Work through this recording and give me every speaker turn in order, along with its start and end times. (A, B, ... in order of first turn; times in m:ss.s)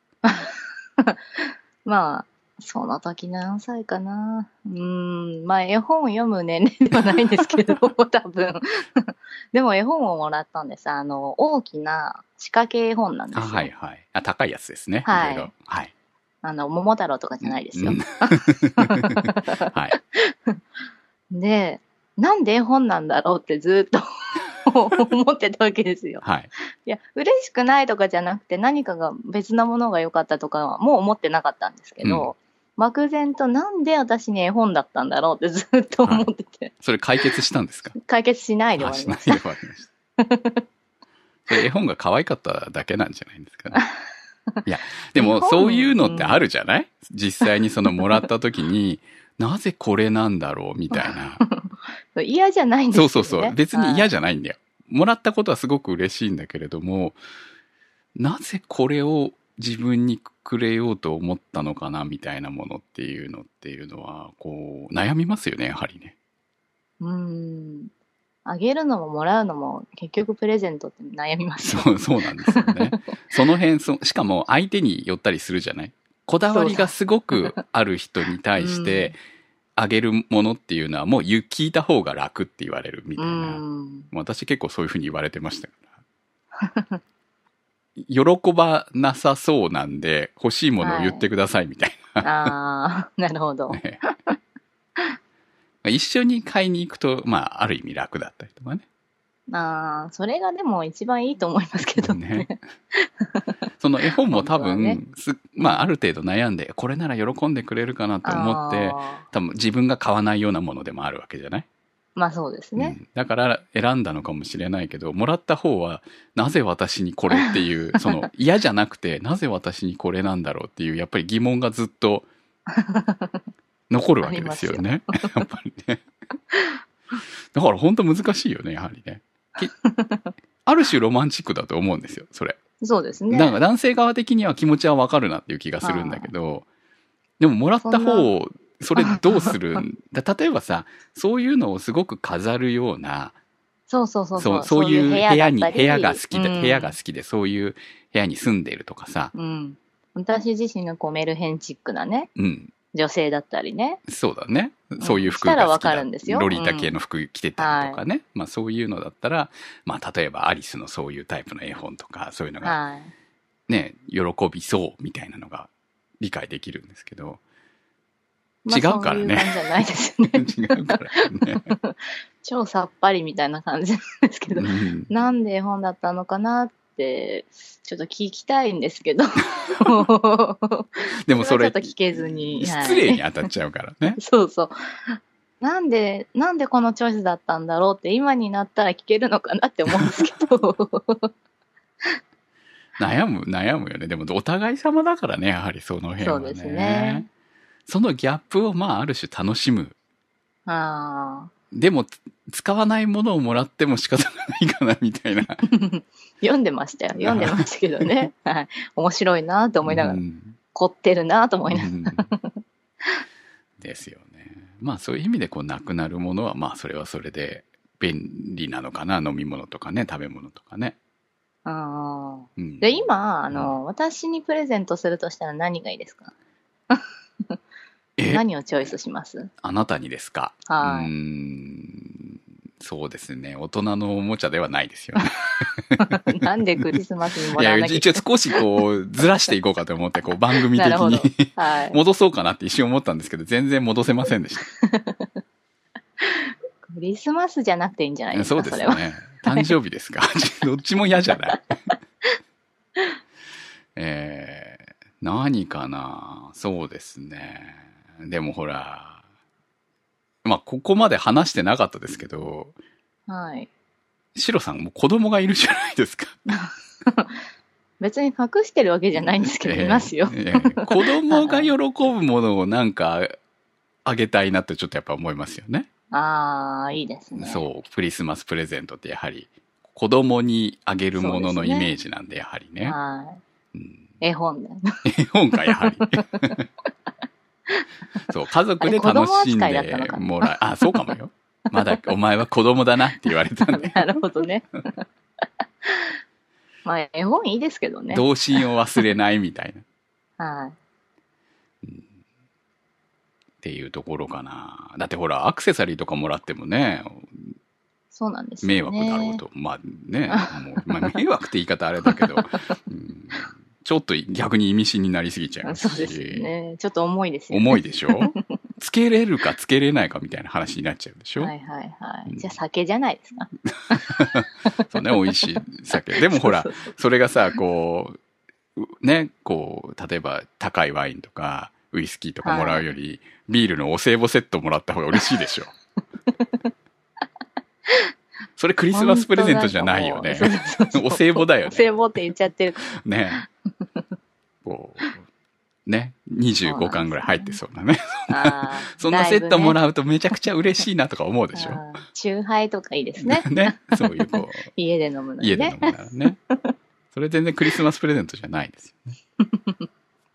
0:00.2-0:13.7 A
0:07.2-0:07.6 B
0:13.3-0:15.9 B
0:15.0-0:15.5 A
0:16.4-0:20.6 A
0:17.4-0:20.0 B
0:21.3-0:26.2 A
0:26.2-0:26.5 B
0:26.8-0:36.7 A
0:32.0-0:32.3 B
0:36.8-0:38.0 B
0:38.0-0:39.4 A
0:38.8-0:39.9 B
0:40.2-0:40.6 A
0:41.5-0:43.8 B
0:44.6-0:51.4 B
0:45.2-0:46.4 A
0:50.9-0:54.1 A
0:52.9-0:57.2 B
0:58.2-1:06.2 B
1:07.0-1:07.9 A
1:08.5-1:13.0 A
1:11.6-1:19.2 B
1:16.5-1:17.6 A
1:18.6-1:19.2 A
1:19.8-1:25.9 B
1:23.2-1:24.1 A
1:26.6-1:26.9 A
1:28.0-1:32.5 B
1:30.8-1:31.3 A
1:32.2-1:34.4 A
1:33.7-1:34.0 B
1:35.8-1:38.8 B
1:39.5-1:43.5 A
1:42.0-1:42.6 B
1:43.8-1:51.7 B
1:44.1-1:45.0 A
1:45.6-1:45.9 A
1:48.2-1:49.2 A
1:52.2-1:53.0 A
1:52.8-2:02.3 B
2:02.8-2:03.4 A
2:03.9-2:06.0 B
2:04.2-2:05.3 A
2:07.5-2:09.7 B
2:09.6-2:10.3 A
2:10.7-2:12.6 B
2:12.8-2:13.6 A
2:13.3-2:16.7 B
2:15.8-2:16.3 A
2:17.4-2:23.4 B
2:17.8-2:18.3 A
2:19.0-2:19.8 A
2:23.9-2:27.0 A
2:24.4-2:29.3 B
2:29.3-2:32.3 A
2:32.4-2:32.7 B
2:32.9-2:34.0 A
2:34.1-2:42.8 B
2:35.0-2:37.0 A
2:37.6-2:38.0 A
2:42.6-2:43.1 A
2:43.7-2:47.4 B
2:48.6-3:03.2 A
2:48.7-2:49.7 B
2:50.2-2:51.7 B
2:54.5-2:55.1 B
2:59.8-3:00.1 B
3:01.2-3:04.2 B
3:04.2-3:11.3 A
3:13.0-3:17.3 B
3:16.2-3:17.3 A
3:17.9-3:20.0 B
3:20.7-3:21.5 A
3:21.7-3:25.7 B
3:25.7-3:30.2 A
3:27.2-3:27.6 B
3:29.8-3:30.6 B
3:30.7-3:33.2 A
3:31.7-3:32.3 B
3:33.8-3:41.0 B
3:41.6-3:46.3 A
3:42.6-3:43.8 B
3:46.9-3:47.6 A
3:48.2-3:48.4 B
3:48.3-3:49.5 A
3:49.6-3:56.4 B
3:50.7-3:51.1 A
3:56.0-3:58.8 A
3:57.6-4:04.7 B
4:00.7-4:02.0 A
4:04.7-4:05.3 A
4:06.2-4:09.7 A
4:08.3-4:11.6 B
4:14.0-4:19.2 B
4:20.4-4:22.7 B
4:23.3-4:23.7 A
4:24.4-4:26.4 B
4:26.5-4:27.4 A
4:28.0-4:31.7 A
4:29.2-4:33.4 B
4:34.0-4:35.9 B
4:36.1-4:37.7 A
4:37.3-4:43.0 B
4:41.2-4:41.9 A
4:42.8-4:43.4 A
4:43.7-4:44.1 B
4:44.2-4:44.9 A
4:45.0-4:46.6 B
4:45.6-4:46.6 A
4:48.3-4:54.2 B
4:48.8-4:51.1 A
4:51.8-4:52.0 A
4:53.7-4:55.0 A
4:55.8-4:56.1 A
4:56.8-4:58.3 A
4:58.1-4:59.8 B
5:00.4-5:00.8 A
5:03.6-5:07.5 B
5:08.1-5:09.4 A
5:08.6-5:16.5 B
5:10.3-5:10.8 A
5:12.0-5:12.4 A
5:15.6-5:18.4 A
5:17.5-5:21.5 B
5:21.4-5:24.8 A
5:23.7-5:28.2 B
5:25.6-5:26.9 A
5:28.8-5:35.7 B
5:32.4-5:32.8 A
5:38.6-5:41.9 B
5:38.9-5:42.9 A
5:42.9-5:43.4 B
5:44.6-5:45.2 B
5:45.9-5:51.8 B
5:46.6-5:47.6 A
5:48.3-5:49.8 A
5:51.5-5:55.9 A
5:53.2-5:54.7 B
5:55.4-5:56.4 B
5:57.1-5:59.2 B
5:59.4-5:59.8 A